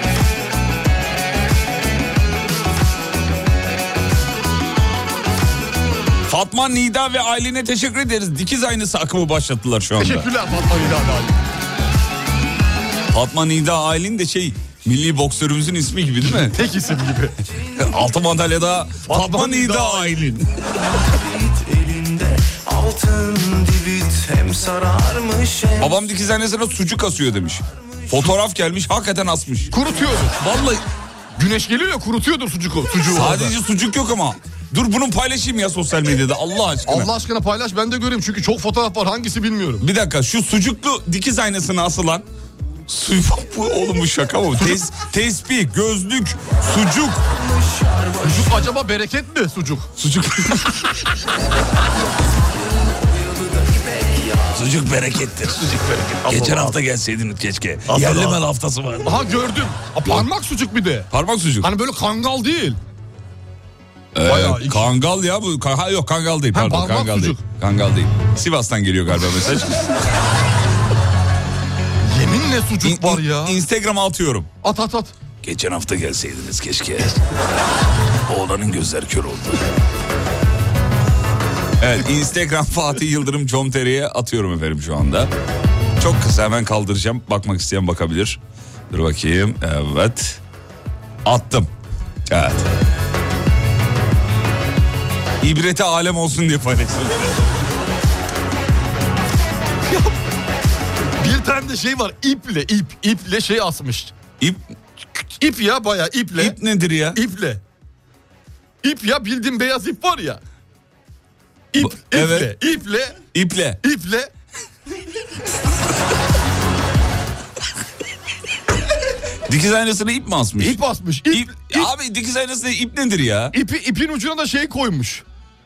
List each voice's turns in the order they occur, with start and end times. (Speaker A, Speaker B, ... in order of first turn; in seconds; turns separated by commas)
Speaker A: 6.3-10.3, Speaker B: 10.0-11.4, Speaker A: 13.1-16.6, Speaker B: 16.2-17.4, Speaker A: 17.8-20.5, Speaker B: 19.0-20.3, Speaker C: 21.0-26.0, Speaker A: 25.8-29.7, Speaker B: 29.7-30.4, Speaker A: 30.4-30.8, Speaker B: 31.4-33.5, Speaker A: 33.0-37.1, Speaker B: 36.9-39.8, Speaker A: 39.8-42.2, Speaker A: 42.9-47.2, Speaker B: 44.6-44.8, Speaker C: 47.3-48.7, Speaker B: 48.2-49.9, Speaker A: 50.0-51.0, Speaker C: 52.5-54.6, Speaker A: 54.5-59.3, Speaker B: 55.6-56.8, Speaker B: 57.9-58.4, Speaker B: 59.0-61.1, Speaker A: 61.1-61.7, Speaker B: 61.6-62.8, Speaker A: 64.1-70.0, Speaker B: 64.2-64.9, Speaker B: 66.5-67.4, Speaker B: 72.0-73.6, Speaker A: 72.8-74.5, Speaker B: 74.6-75.1, Speaker A: 75.4-77.2, Speaker A: 78.3-79.6, Speaker A: 81.8-85.3, Speaker A: 86.0-88.4, Speaker A: 88.9-90.4, Speaker A: 91.2-91.7, Speaker A: 92.3-92.7, Speaker A: 95.4-97.6, Speaker B: 99.9-100.2, Speaker B: 101.2-104.1, Speaker B: 105.2-106.6, Speaker A: 106.4-107.2, Speaker B: 107.1-107.6, Speaker B: 108.8-110.4, Speaker B: 111.7-113.2, Speaker A: 111.8-112.5, Speaker A: 113.3-113.8, Speaker B: 113.8-114.3, Speaker A: 119.5-123.5, Speaker B: 120.6-121.9, Speaker B: 123.5-125.2